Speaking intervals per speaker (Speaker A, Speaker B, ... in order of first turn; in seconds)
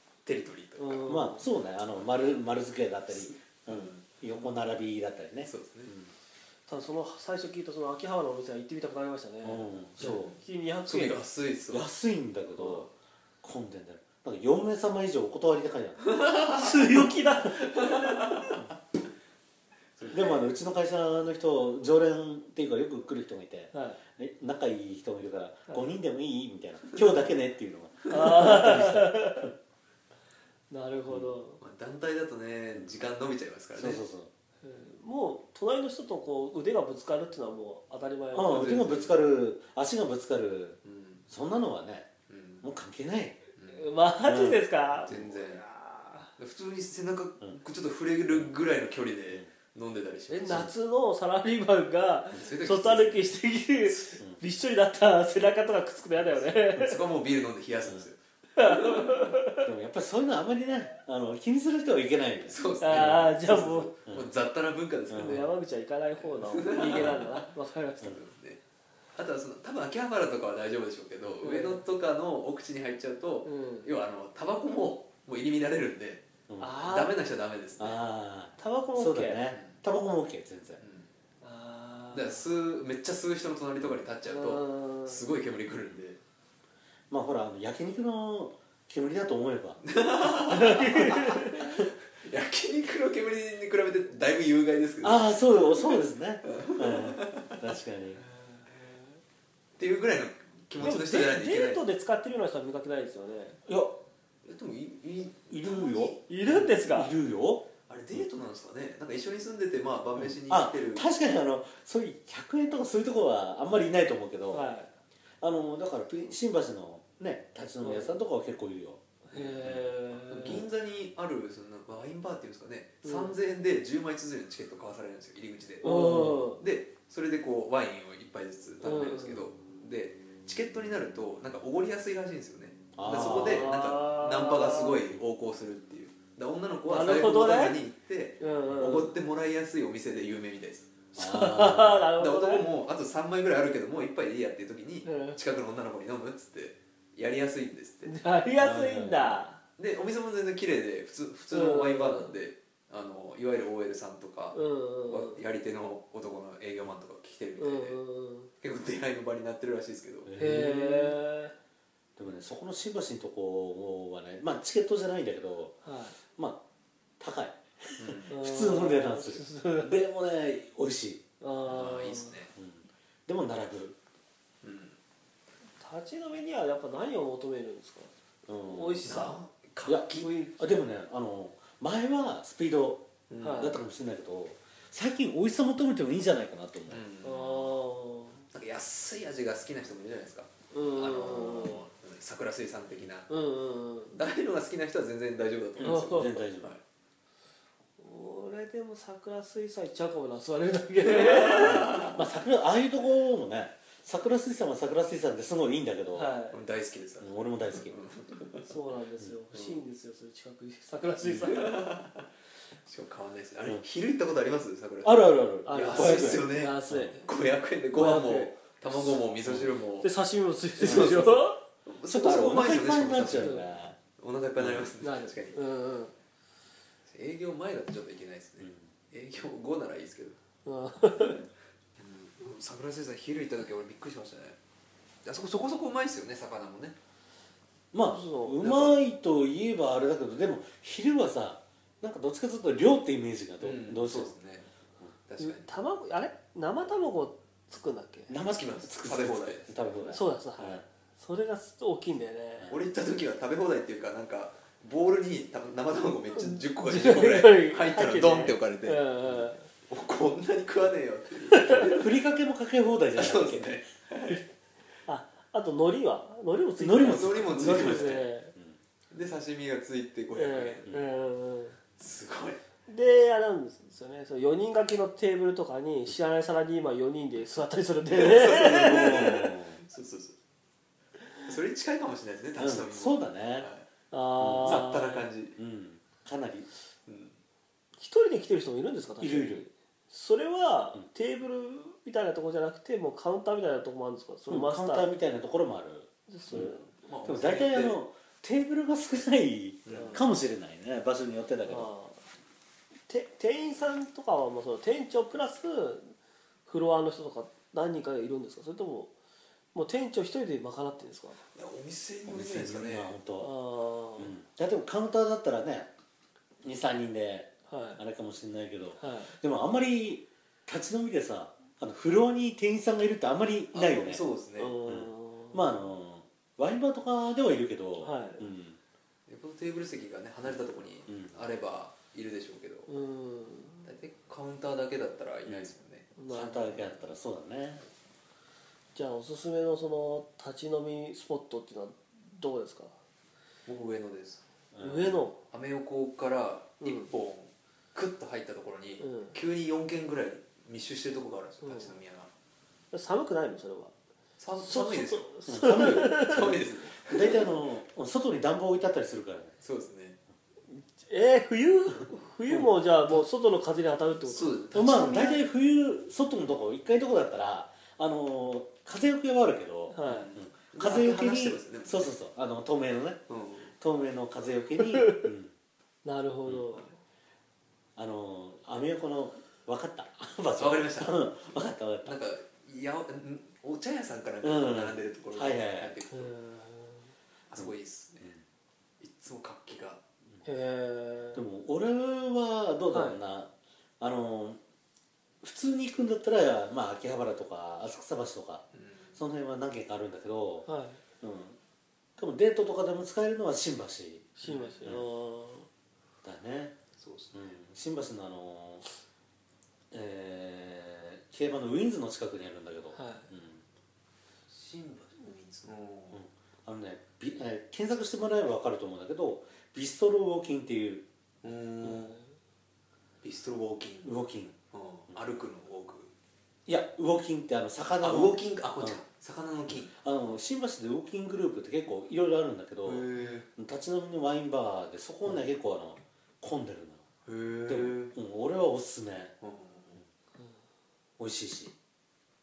Speaker A: 0.2-1.1, 3.1-4.5, 5.4-5.9, 10.0-11.8, 16.0-16.7, 17.6-18.6, 20.0-20.5, 31.6-34.0, 38.4-39.1, 40.8-41.2, 42.3-42.7, 43.6-43.9, 45.0-45.6, 46.4-50.7, 52.3-53.3, 53.9-54.2, 56.7-59.3, 62.5-65.4, 66.2-67.5, 68.0-68.6, 69.1-76.3, 76.8-78.0, 80.8-81.1, 82.1-86.2, 89.8-95.3, 96.4-97.6, 99.8-101.8, 104.4-106.7, 107.9-111.0, 120.2-140.9, 142.2-148.1, 149.8-158.0, 158.6-160.3, 168.0-168.4, 171.7-172.5, 174.6-175.0, 179.0-180.3, 183.3-183.7, 186.9-187.7, 188.5-193.3, 194.1-196.8, 201.1-202.2, 206.5-208.7, 209.5-209.8, 211.4-212.3, 212.8-220.1, 220.8-223.6, 224.2-225.6, 227.1-230.4, 232.0-234.6, 235.2-237.0, 238.6-238.9, 243.6-244.7, 245.3-245.8, 248.4-250.0, 252.7-259.0, 259.9-262.1, 263.1-264.4, 267.0-268.2, 269.1-270.9, 272.0-272.6, 278.1-280.4, 281.4-283.9, 284.6-285.6, 287.1-287.4, 296.5-298.0, 299.9-300.2, 311.5-313.1, 323.7-324.7, 329.3-332.9, 333.8-336.1, 343.6-344.4, 345.5-352.3, 354.4-357.4, 359.6-360.2, 364.3-365.4, 370.0-372.1, 373.3-373.8, 380.5-381.5, 382.0-386.4, 387.5-388.3, 389.0-390.0, 398.7-399.2, 404.4-404.9, 406.9-407.6, 414.5-416.2, 421.4-422.2, 423.2-424.2, 424.7-426.1, 428.0-429.9, 432.8-433.5, 437.2-438.1, 439.4-440.0
Speaker B: 0.8-1.4, 6.7-11.3, 16.4-18.4, 23.7-24.0, 28.1-29.5, 30.7-31.6, 34.6-38.8, 43.7-46.3, 50.3-57.0, 58.5-59.6, 62.8-63.9, 65.2-68.2, 71.4-71.8, 73.4-73.9, 76.6-77.1, 78.6-79.4, 81.4-82.4, 84.2-85.2, 90.5-91.8, 98.5-99.1, 100.8-103.6, 106.3-107.1, 114.5-114.9, 117.8-118.2, 119.3-120.6, 123.0-123.4, 125.8-126.6, 128.8-129.5, 133.1-135.0, 136.8-137.8, 138.4-139.1, 141.1-142.7, 145.0-145.4, 148.1-149.6, 151.5-152.3, 154.5-155.4, 157.6-158.5, 160.4-161.5, 165.8-166.2, 168.3-170.0, 171.4-172.4, 175.8-178.1, 178.6-179.4, 180.1-180.8, 183.4-183.8, 187.2-188.5, 190.7-191.8, 193.3-194.2, 195.8-196.4, 198.0-202.0, 206.1-206.6, 208.6-211.8, 215.7-217.3, 217.9-218.8, 220.0-221.6, 223.3-223.7, 225.0-226.1, 230.6-231.4, 238.1-238.6, 245.4-248.3, 250.1-252.7, 256.3-259.7, 261.5-262.0, 265.1-268.5, 270.3-271.8, 272.9-279.6, 284.1-285.3, 288.0-295.1, 296.3-296.9, 299.9-300.2, 301.6-302.2, 303.1-306.1, 306.7-309.1, 309.7-311.4, 313.4-314.3, 317.7-318.0, 319.0-319.4, 324.6-325.8, 328.0-328.5, 332.9-333.9, 336.2-336.9, 338.9-342.9, 344.8-345.4, 346.8-347.1, 349.0-349.3, 351.6-351.9, 352.9-353.9, 354.6-356.6, 360.7-364.6, 369.9-370.3, 374.8-375.3, 376.0-376.9, 386.1-387.1, 390.4-391.4, 392.9-393.2, 400.6-401.0, 404.4-405.7, 412.9-413.3
Speaker C: 1.1-6.1, 9.4-10.3, 11.7-12.9, 13.4-16.2, 20.1-29.5, 33.7-34.3, 38.3-42.1, 42.6-43.4, 44.2-45.1, 59.6-63.4, 65.1-65.5, 66.9-67.2, 76.5-76.8, 77.8-80.8, 87.1-89.8, 95.0-98.2, 103.7-104.0, 105.5-106.2, 106.7-107.7, 110.2-114.7, 115.4-119.8, 126.1-126.4, 132.9-133.7, 141.1-142.1, 148.6-149.4, 160.2-161.2, 162.2-165.8, 166.3-166.6, 167.2-171.2, 172.6-174.0, 178.5-179.2, 179.9-183.0, 183.6-187.0, 195.8-196.7, 201.6-206.3, 207.2-208.0, 215.0-217.1, 220.8-221.2, 222.1-223.9, 224.6-224.9, 228.6-228.9, 237.9-244.3, 248.3-250.8, 252.6-252.8, 261.8-263.9, 266.8-268.8, 278.5-279.8, 282.6-283.7, 284.4-284.8, 285.6-286.7, 289.2-289.6, 294.5-296.7, 297.2-301.9, 312.3-313.5, 314.2-315.9, 316.6-324.2, 324.8-328.8, 331.1-331.4, 335.5-335.7, 336.3-337.8, 344.7-345.2, 355.5-356.5, 357.1-359.5, 362.5-363.2, 364.7-373.2, 373.8-375.5, 377.9-382.2, 384.4-385.9, 391.3-394.6, 395.4-400.7, 401.2-401.6, 402.2-405.0, 406.2-406.8, 407.3-408.8, 409.9-413.6, 416.1-421.0, 424.0-424.6, 425.1-425.4, 426.7-429.0, 429.7-437.0, 437.7-439.3, 441.2-441.7